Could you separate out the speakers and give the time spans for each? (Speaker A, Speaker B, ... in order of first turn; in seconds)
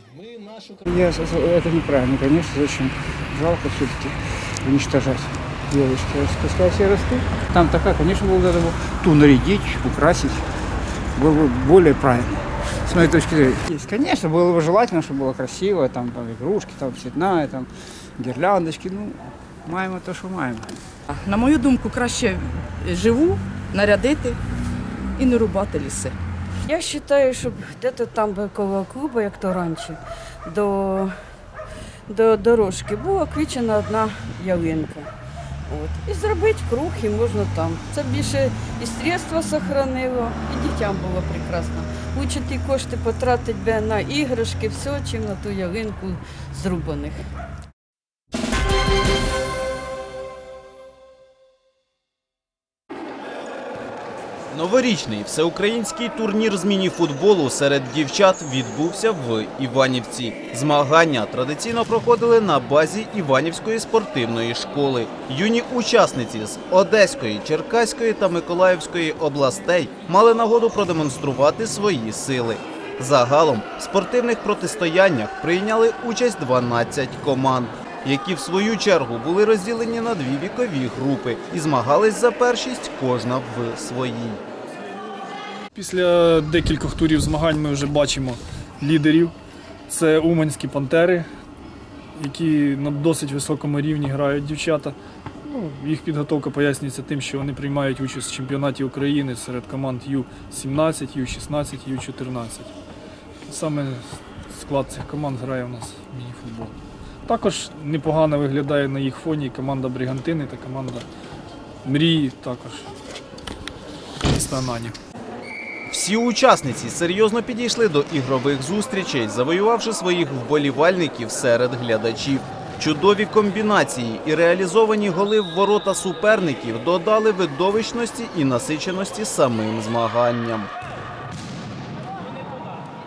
Speaker A: 0.9-10.4, 11.2-20.7
Speaker B: 21.2-24.4, 25.2-26.1
Speaker C: 26.7-29.9, 30.5-31.1, 32.1-35.0, 35.8-46.1, 46.6-47.2
Speaker D: 54.5-84.4, 115.9-130.7
Speaker E: 85.8-89.3, 89.9-91.2, 92.2-95.0, 95.5-102.7, 103.5-106.7, 107.3-111.0, 111.8-112.8, 114.3-115.0